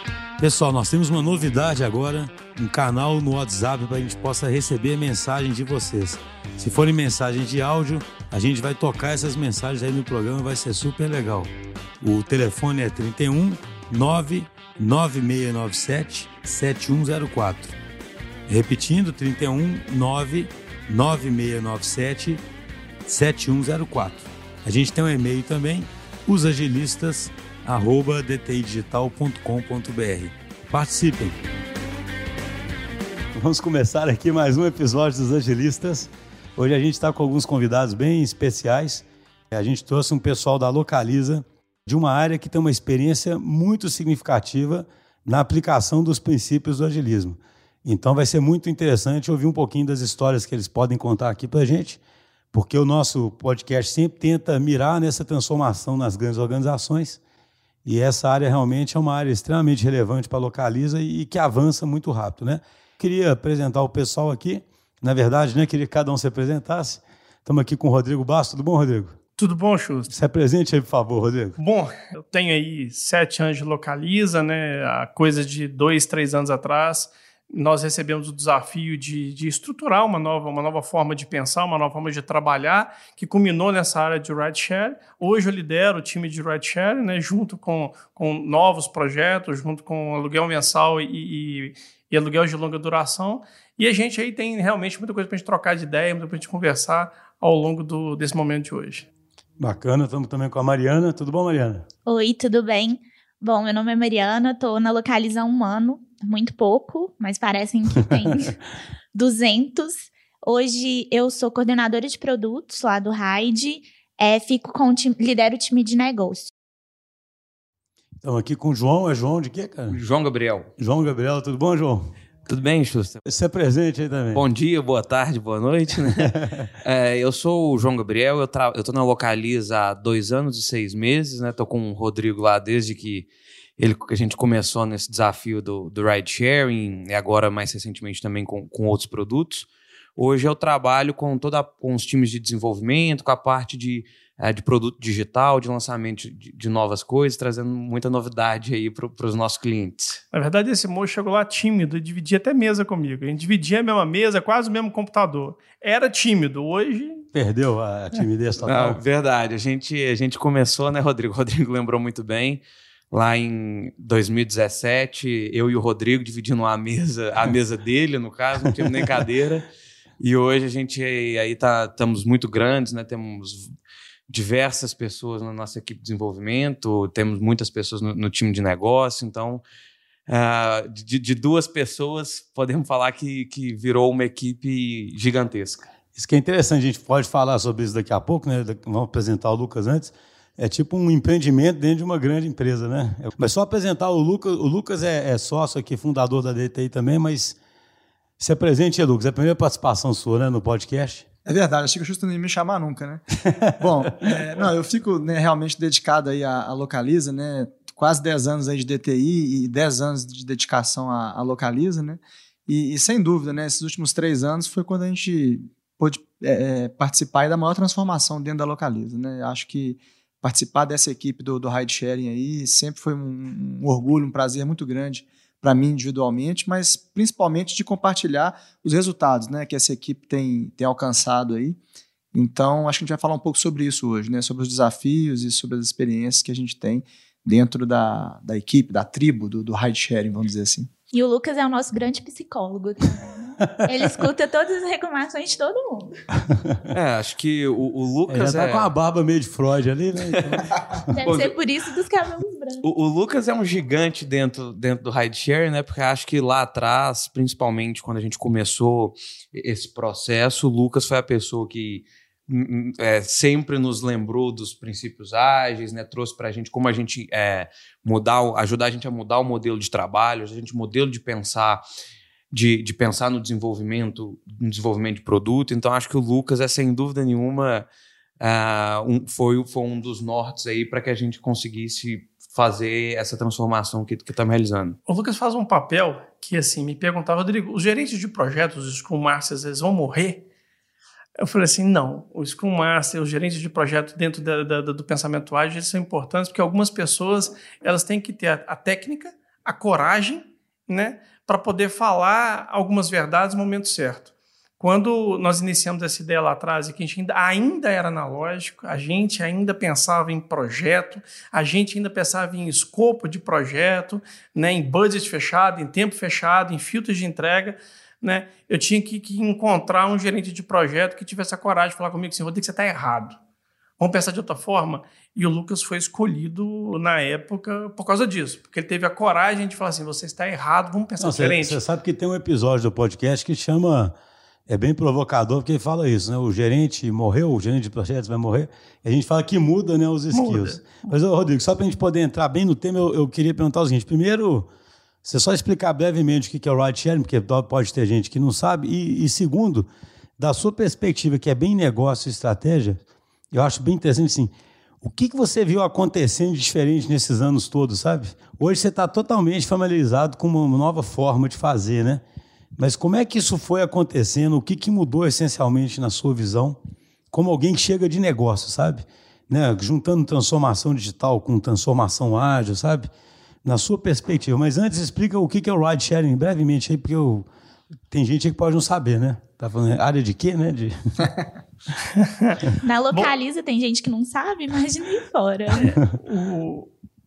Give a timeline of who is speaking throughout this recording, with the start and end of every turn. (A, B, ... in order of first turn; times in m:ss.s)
0:00.4-0:11.5 A
0:12.0-0:17.8 A
0:18.5-0:22.4 A
0:23.1-0:31.4 A
0:33.4-0:52.0 A
0:52.5-0:57.2 A
0:57.8-1:09.2 A
1:09.4-1:10.1 B
1:10.1-1:11.6 A
1:11.6-1:39.1 B
1:39.6-1:41.8 A
1:42.1-1:48.6 C
1:49.1-1:56.5 C
1:58.2-2:00.0 A
1:59.9-2:00.7 D
2:00.8-2:02.1 A
2:02.5-2:03.2 D
2:03.2-2:04.4 A
2:04.3-2:30.2 D
2:06.0-2:06.7 A
2:30.3-2:37.2 B
2:37.3-2:39.0 A
2:38.6-2:49.7 D
2:48.8-2:49.2 A
2:50.2-2:53.7 D
2:54.3-2:59.6 D
3:00.3-3:05.9 D
3:06.2-3:17.6 A
3:18.4-3:21.2 A
3:21.5-3:23.2 E
3:23.4-3:23.7 A
3:23.8-3:51.8 E
3:52.3-4:00.9 E
4:01.1-4:06.2 C
4:06.5-4:06.8 A
4:06.9-4:08.9 D
4:08.3-4:11.1 A
4:10.2-4:10.6 D
4:11.1-4:12.8 C
4:11.2-4:11.5 D
4:12.8-4:31.8 D
4:32.5-4:37.9 D
4:38.4-4:45.0 D
4:45.1-4:50.4 B
4:51.4-5:23.4 B
5:24.0-5:31.8 B
5:31.2-5:34.2 A
5:34.7-5:44.7 A
5:40.3-5:41.1 B
5:45.2-5:53.0 A
5:53.5-6:02.2 A
6:02.8-6:06.8 A
6:07.3-6:13.1 A
6:13.6-6:17.5 A
6:18.1-6:21.3 A
6:22.1-6:23.3 B
6:22.8-6:25.9 C
6:25.8-6:26.9 B